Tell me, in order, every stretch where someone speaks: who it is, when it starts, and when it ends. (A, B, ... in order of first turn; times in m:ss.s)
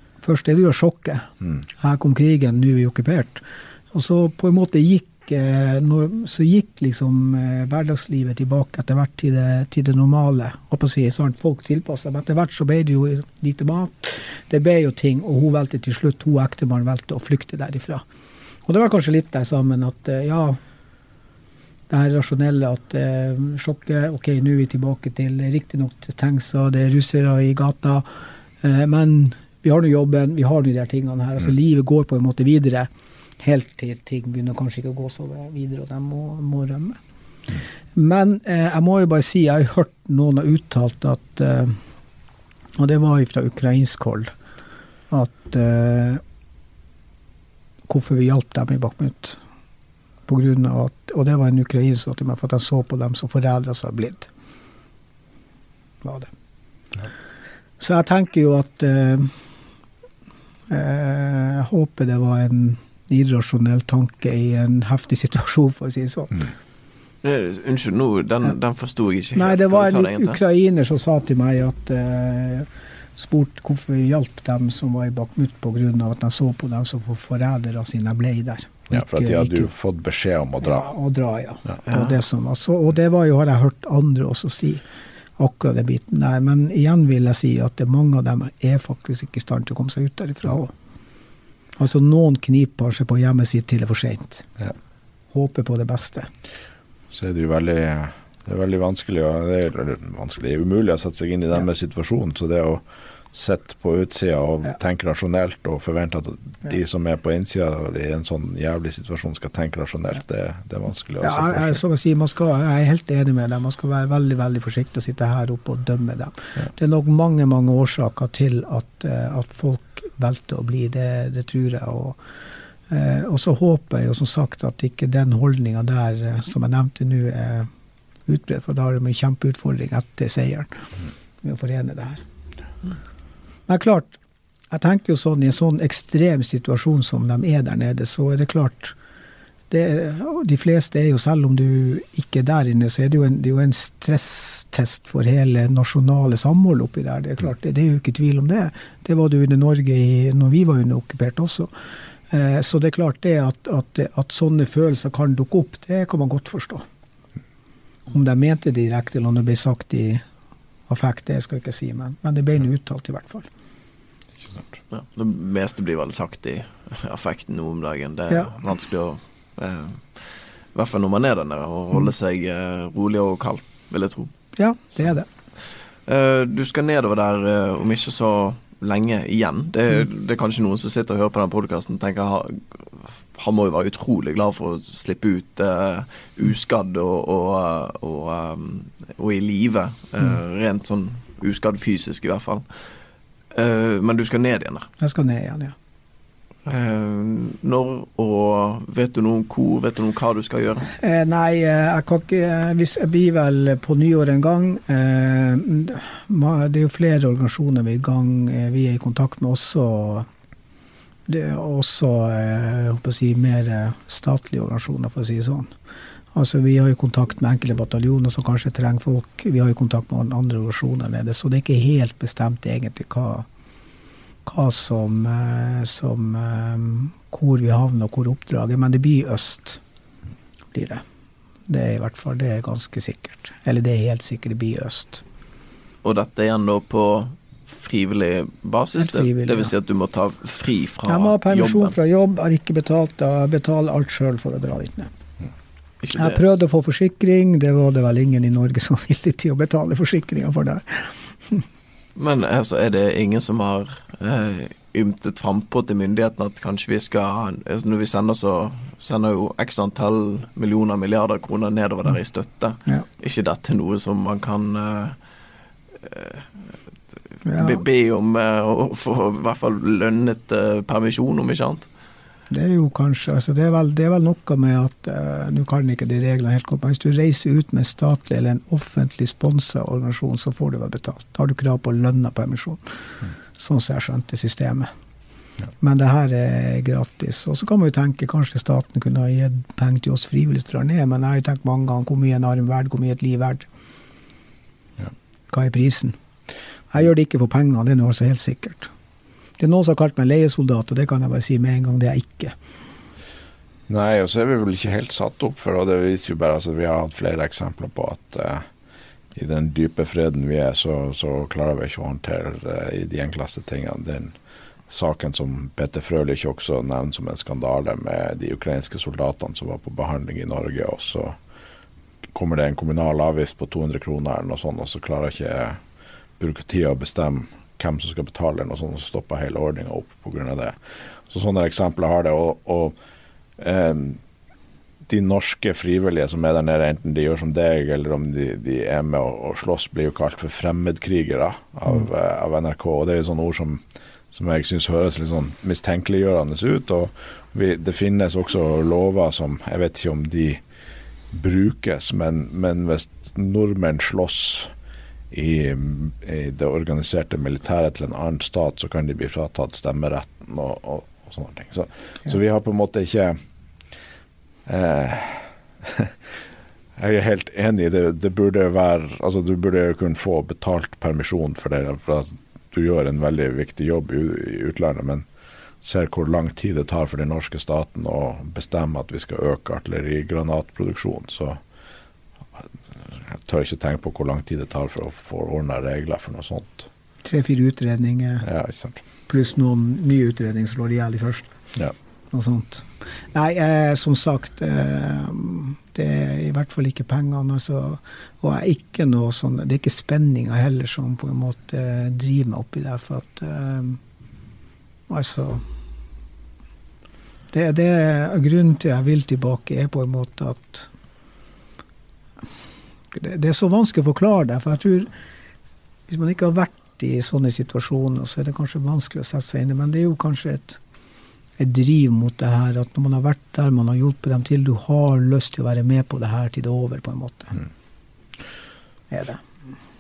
0:00.2-0:18.0 A
0:18.7-0:20.6 A
0:21.9-0:28.1 A
0:28.6-0:32.9 A
0:33.4-0:37.0 A
0:38.0-0:41.8 A
0:42.8-0:44.3 A
0:45.1-0:46.2 A
0:47.9-0:49.4 A
0:50.3-0:54.3 A
0:56.0-0:56.3 A
0:57.8-0:59.3 A
1:00.7-1:06.5 A
1:07.2-1:10.4 B
1:09.4-1:19.7 A
1:18.9-1:20.9 C
1:20.6-1:24.8 A
1:25.4-1:30.7 A
1:31.8-1:34.5 A
1:35.3-1:36.3 A
1:37.1-1:51.8 C
1:51.2-2:02.2 A
2:02.9-2:07.7 A
2:08.3-2:10.8 A
2:11.4-2:12.2 A
2:13.7-2:14.2 A
2:14.7-2:19.0 A
2:19.7-2:31.7 A
2:32.3-2:36.9 A
2:38.1-2:40.2 A
2:40.9-2:43.5 A
2:44.9-2:54.3 B
2:54.6-2:55.3 A
2:56.1-3:12.6 B
3:13.5-3:14.9 B
3:15.0-3:15.8 A
3:16.6-3:20.9 B
3:21.0-3:30.3 A
3:31.3-3:35.7 A
3:36.3-3:43.5 A
3:44.5-3:49.8 A
3:50.7-3:51.0 A
3:51.7-3:55.2 A
3:56.0-4:02.0 B
3:59.0-3:59.7 A
4:01.1-4:05.1 A
4:06.0-4:06.4 B
4:06.2-4:11.6 A
4:12.2-4:25.2 B
4:26.0-4:26.7 B
4:27.4-4:27.8 A
4:27.5-4:31.9 B
4:32.5-4:42.8 A
4:43.6-4:44.9 A
4:45.8-4:53.7 A
4:55.5-4:56.2 A
4:56.9-4:58.9 A
4:59.6-5:02.6 A
5:03.9-5:08.7 C
5:09.3-5:14.4 C
5:14.9-5:21.4 C
5:22.3-5:25.8 C
5:26.4-5:30.8 C
5:31.3-5:33.0 C
5:33.6-5:34.2 C
5:35.1-5:50.6 C
5:51.3-5:54.7 C
5:55.3-6:03.4 C
6:04.7-6:06.4 C
6:07.0-6:15.3 C
6:15.8-6:21.6 C
6:22.6-6:26.9 C
6:27.2-6:28.5 A
6:28.4-6:29.0 C
6:29.3-6:31.5 A
6:32.3-6:44.0 A
6:45.1-6:45.6 A
6:47.5-6:50.9 A
6:53.1-6:55.1 A
6:56.1-7:00.8 A
7:01.6-7:07.6 A
7:09.1-7:09.4 A